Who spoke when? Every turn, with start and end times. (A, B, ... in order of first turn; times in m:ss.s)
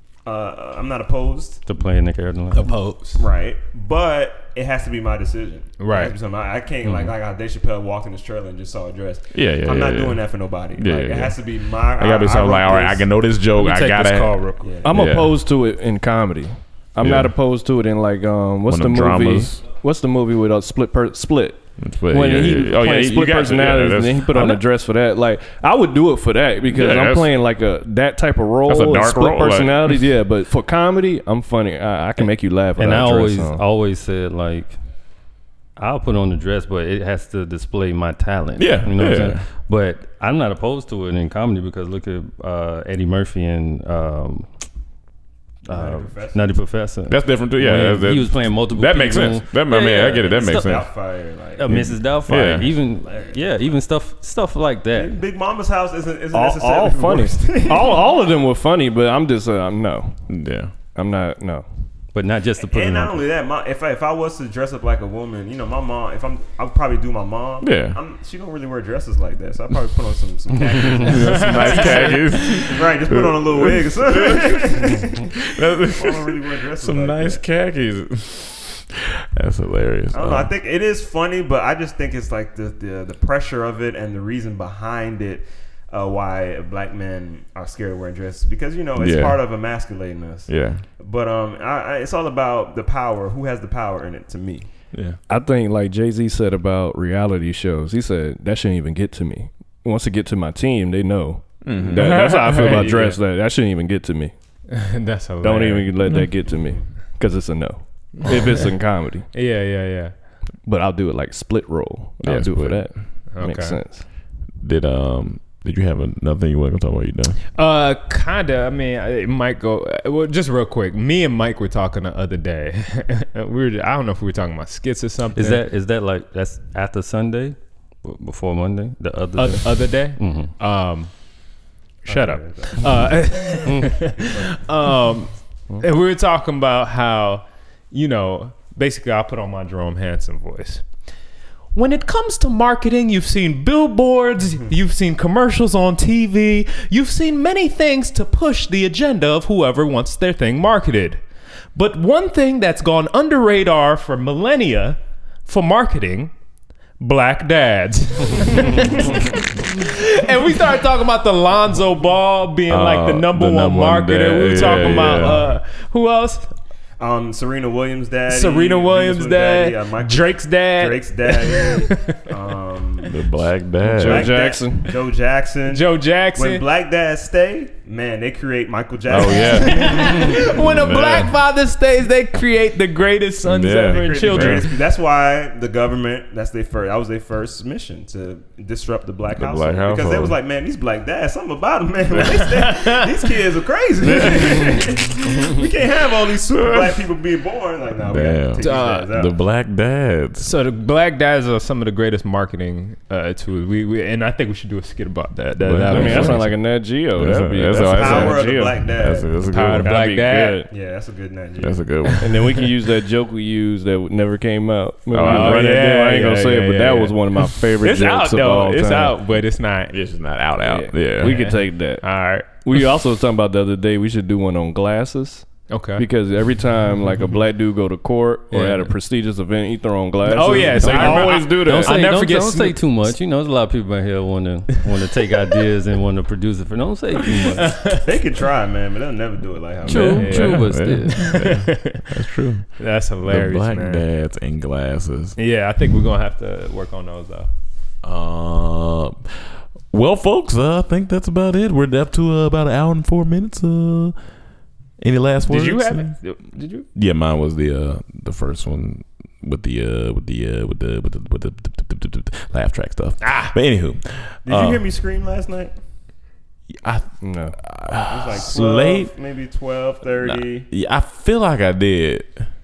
0:00.2-0:01.6 A
0:01.6-0:02.8 B
0:02.5-0:03.2 C
0:03.2-0:13.0 A
0:05.8-0:06.1 C
0:06.8-0:07.1 B
0:09.3-0:11.4 D
0:11.9-0:15.3 D
0:13.6-0:14.7 C
0:14.6-0:15.0 A
0:14.8-0:33.6 E
0:17.0-0:17.3 D
0:18.7-0:19.6 D
0:21.8-0:24.3 D
0:24.3-0:24.6 B
0:26.7-0:27.3 D
0:28.7-0:30.0 D
0:32.8-0:34.8 B
0:35.8-0:44.5 B
0:38.6-0:39.4 D
0:45.6-0:50.8 B
0:45.7-0:46.5 A
0:47.1-0:50.9 D
0:50.3-0:51.9 A
0:51.6-0:55.2 B
0:51.6-0:52.7 D
0:52.4-0:53.7 A
0:54.9-0:58.1 A
0:56.3-1:00.1 E
1:00.3-1:00.7 D
1:00.9-1:01.6 E
1:02.1-1:03.2 B
1:02.6-1:17.4 A
1:07.6-1:08.0 D
1:10.8-1:11.0 B
1:10.9-1:20.5 D
1:11.3-1:12.1 C
1:20.1-1:34.7 A
1:29.0-1:29.4 D
1:30.5-1:30.8 D
1:34.9-1:35.2 D
1:35.3-1:44.3 E
1:41.6-1:43.0 D
1:41.9-1:43.2 C
1:44.7-1:45.9 C
1:45.4-1:49.3 E
1:49.3-1:50.1 C
1:50.6-1:54.0 E
1:52.2-1:52.9 D
1:53.3-1:53.8 C
1:54.6-1:57.4 D
1:57.5-2:05.6 C
2:05.3-2:10.5 B
2:09.4-2:11.1 C
2:12.0-2:20.8 C
2:12.0-2:13.1 A
2:13.7-2:14.1 B
2:21.7-2:31.2 C
2:31.7-2:36.3 C
2:37.0-2:46.5 C
2:42.7-2:45.4 D
2:44.6-2:45.4 A
2:47.0-2:53.2 A
2:48.3-2:52.2 C
2:53.1-2:54.5 D
2:53.8-2:55.0 E
2:54.0-3:00.5 A
2:55.7-2:56.6 C
2:59.1-3:01.3 D
2:59.3-3:04.8 C
3:03.4-3:04.7 D
3:03.8-3:19.3 A
3:09.3-3:10.4 D
3:12.1-3:12.4 D
3:12.2-3:13.2 C
3:14.1-3:14.9 D
3:16.5-3:17.0 D
3:18.0-3:20.5 D
3:18.6-3:19.1 C
3:20.4-3:26.5 C
3:25.6-3:26.5 D
3:25.9-3:28.8 E
3:27.1-3:30.0 D
3:27.9-3:29.3 A
3:29.5-3:30.6 C
3:29.8-3:30.7 E
3:30.7-3:32.1 A
3:31.6-3:32.4 D
3:32.2-3:39.2 E
3:35.1-3:35.7 D
3:35.2-3:39.9 C
3:39.9-3:41.4 D
3:40.6-3:52.0 E
3:41.2-3:42.9 C
3:45.7-3:46.1 C
3:48.5-3:48.9 C
3:50.2-3:53.1 C
3:50.8-3:57.9 B
3:50.8-3:51.2 D
3:57.4-3:58.2 C
3:57.9-4:00.4 A
3:59.8-4:01.5 B
3:59.8-4:05.4 D
4:00.1-4:02.1 C
4:02.8-4:04.0 C
4:05.4-4:07.5 C
4:08.0-4:14.2 D
4:15.0-4:16.2 D
4:15.4-4:16.8 C
4:16.9-4:24.8 D
4:23.2-4:23.6 C
4:24.4-4:25.7 A
4:26.8-4:29.1 D
4:27.2-4:27.6 E
4:28.0-4:30.7 A
4:30.2-4:32.5 D